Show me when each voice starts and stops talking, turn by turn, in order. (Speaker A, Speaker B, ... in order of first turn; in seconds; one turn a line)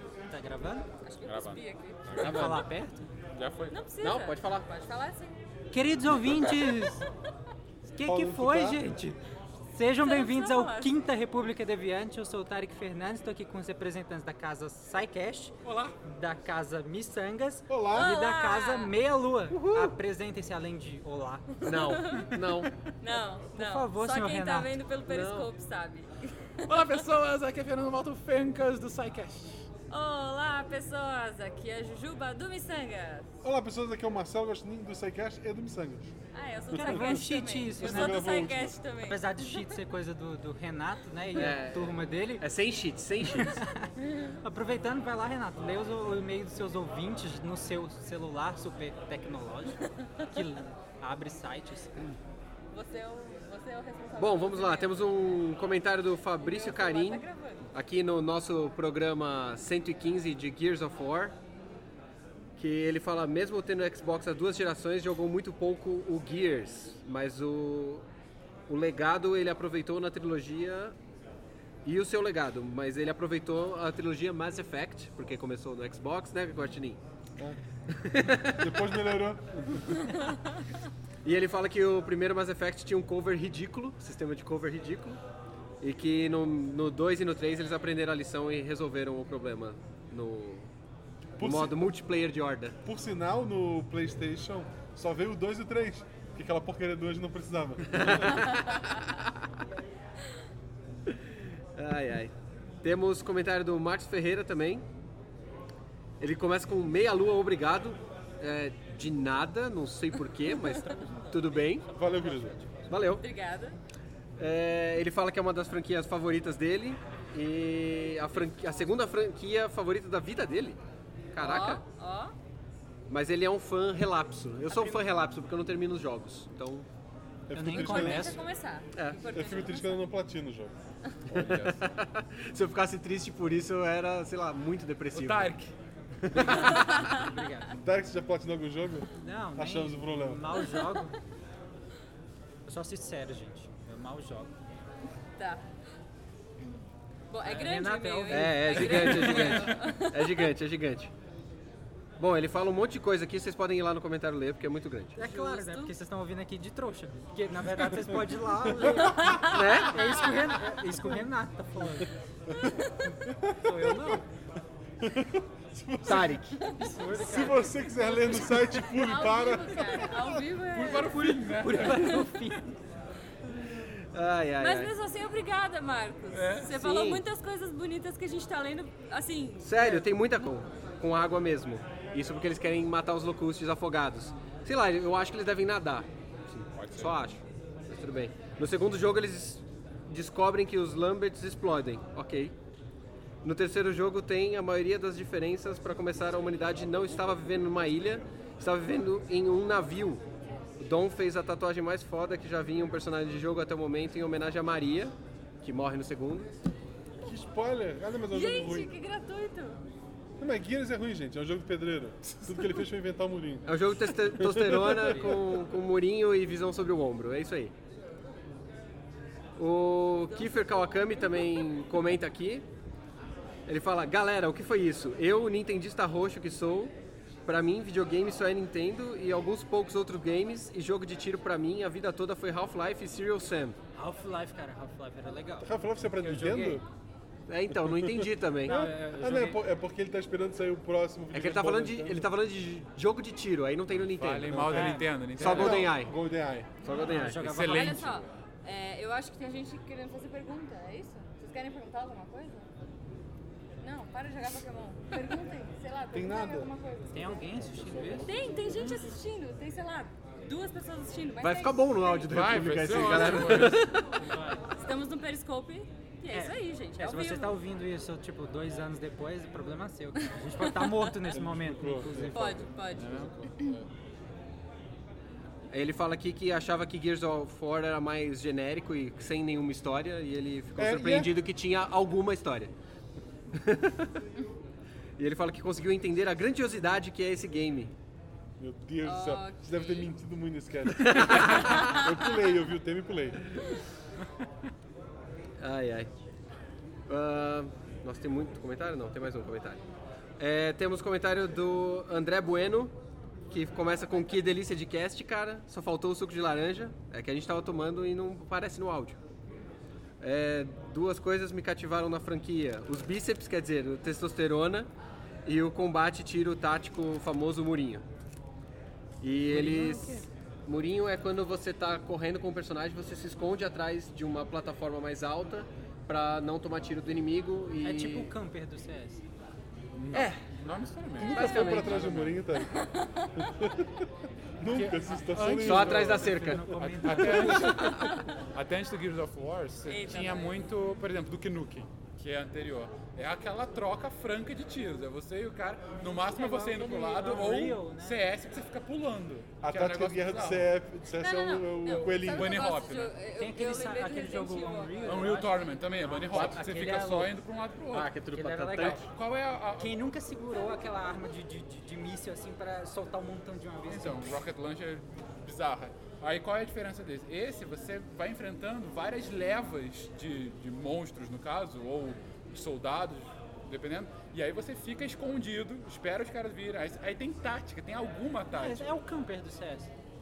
Speaker A: 0.3-0.9
Speaker B: 1.0-2.6
Speaker C: 1.3-2.6
Speaker A: 2.2-3.1
Speaker C: 3.4-3.8
Speaker B: 3.7-5.5
Speaker D: 4.0-4.7
Speaker A: 5.7-7.1
Speaker A: 7.8-9.2
Speaker E: 8.0-8.8
Speaker A: 9.7-21.6
Speaker B: 10.0-10.9
Speaker C: 15.6-16.0
Speaker E: 17.7-18.2
Speaker B: 17.9-18.9
Speaker D: 19.5-19.9
Speaker B: 21.6-22.4
Speaker D: 21.6-22.7
Speaker B: 23.0-26.9
Speaker A: 23.5-24.8
Speaker D: 25.1-25.5
Speaker C: 26.7-29.7
Speaker B: 29.9-33.4
Speaker E: 33.4-36.1
Speaker B: 36.3-39.8
Speaker A: 36.7-38.2
Speaker E: 36.8-38.8
Speaker A: 39.1-42.5
Speaker D: 41.3-43.6
Speaker A: 43.2-43.9
Speaker B: 44.0-44.4
Speaker A: 44.4-52.2
Speaker B: 52.7-55.1
Speaker D: 54.2-61.4
Speaker B: 56.4-57.7
Speaker D: 62.6-68.0
Speaker D: 68.7-71.0
Speaker D: 71.8-77.0
Speaker D: 77.9-78.7
Speaker E: 78.5-80.0
Speaker D: 81.2-85.2
Speaker D: 85.8-90.7
Speaker E: 91.4-91.9
Speaker D: 91.4-92.8
Speaker E: 92.8-98.4
Speaker D: 97.9-99.3
Speaker D: 101.1-104.9
Speaker D: 106.2-111.9
Speaker E: 111.9-112.6
Speaker D: 112.9-113.3
Speaker B: 113.1-113.8
Speaker D: 114.4-120.8
Speaker D: 121.3-121.8
Speaker B: 121.4-122.3
Speaker D: 123.1-126.9
Speaker E: 127.5-128.4
Speaker A: 127.5-128.4
Speaker B: 127.8-130.1
Speaker D: 128.9-129.2
Speaker E: 129.3-130.8
Speaker C: 131.3-131.9
Speaker D: 131.3-135.6
Speaker C: 135.1-135.7
Speaker D: 136.2-136.9
Speaker A: 136.3-137.8
Speaker B: 136.7-137.3
Speaker E: 137.8-140.4
Speaker A: 139.2-141.2
Speaker B: 140.6-140.9
Speaker A: 142.7-144.5
Speaker B: 145.4-145.7
Speaker B: 147.3-150.5
Speaker A: 147.4-149.5
Speaker D: 148.3-151.1
Speaker D: 152.2-155.2
Speaker A: 155.2-162.1
Speaker B: 155.2-155.9
Speaker E: 158.5-159.3
Speaker B: 159.0-159.7
Speaker D: 159.5-160.3
Speaker E: 160.9-161.2
Speaker E: 162.5-164.2
Speaker A: 163.6-164.2
Speaker E: 165.0-170.4
Speaker D: 166.1-166.6
Speaker B: 166.6-167.0
Speaker A: 166.7-167.9
Speaker B: 167.9-172.3
Speaker C: 170.7-172.4
Speaker A: 171.6-172.8
Speaker D: 173.7-174.9
Speaker B: 174.6-180.1
Speaker C: 176.3-176.8
Speaker D: 176.8-177.2
Speaker D: 179.6-192.6
Speaker A: 179.8-180.0
Speaker C: 186.7-187.2
Speaker D: 193.4-200.2
Speaker D: 200.8-206.5
Speaker E: 207.2-208.9
Speaker B: 208.3-209.8
Speaker E: 210.4-215.4
Speaker D: 213.7-217.7
Speaker D: 219.6-222.7
Speaker B: 220.3-221.6
Speaker D: 223.7-226.9
Speaker D: 227.5-233.8
Speaker A: 234.0-236.8
Speaker E: 235.6-236.8
Speaker D: 237.5-238.9
Speaker E: 237.8-242.3
Speaker A: 238.6-239.6
Speaker D: 241.3-246.2
Speaker C: 243.9-246.0
Speaker E: 244.5-246.7
Speaker A: 244.7-245.1
Speaker D: 246.8-247.6
Speaker A: 246.9-248.1
Speaker C: 247.3-248.3
Speaker B: 247.6-252.7
Speaker B: 253.8-257.5
Speaker E: 256.1-256.7
Speaker A: 257.1-259.0
Speaker E: 257.5-258.9
Speaker B: 258.2-262.5
Speaker D: 261.4-264.0
Speaker C: 262.3-263.9
Speaker B: 263.2-264.0
Speaker A: 264.2-264.6
Speaker B: 264.7-267.6
Speaker A: 266.3-272.8
Speaker B: 270.2-271.0
Speaker E: 271.3-273.8
Speaker B: 272.3-273.3
Speaker C: 272.9-273.3
Speaker D: 275.7-282.7
Speaker E: 280.8-281.3
Speaker D: 283.5-284.1
Speaker D: 285.2-287.9
Speaker E: 288.6-293.5
Speaker B: 289.0-290.1
Speaker D: 290.9-292.0
Speaker B: 291.7-292.1
Speaker D: 295.6-296.1
Speaker D: 297.1-299.8
Speaker D: 300.4-302.9
Speaker D: 303.5-309.2
Speaker D: 310.2-314.9
Speaker D: 315.4-318.1
Speaker D: 319.2-328.3
Speaker A: 319.5-320.3
Speaker A: 327.8-329.2
Speaker C: 329.9-332.4
Speaker D: 330.1-330.4
Speaker E: 331.2-332.8
Speaker D: 331.2-332.2
Speaker B: 332.6-333.3
Speaker E: 333.4-334.1
Speaker E: 334.6-336.6
Speaker A: 334.7-337.9
Speaker C: 335.3-336.3
Speaker D: 335.5-337.7
Speaker C: 336.9-350.7
Speaker E: 337.3-337.7
Speaker B: 337.8-338.3
Speaker B: 339.9-340.6
Speaker A: 346.3-348.2
Speaker E: 349.6-352.7
Speaker B: 351.2-355.4
Speaker C: 352.1-353.2
Speaker A: 353.4-357.3
Speaker C: 355.1-358.1
Speaker D: 357.9-359.1
Speaker A: 358.3-359.1
Speaker C: 358.8-360.0
Speaker A: 359.8-364.4
Speaker C: 363.9-378.9
Speaker A: 378.5-379.9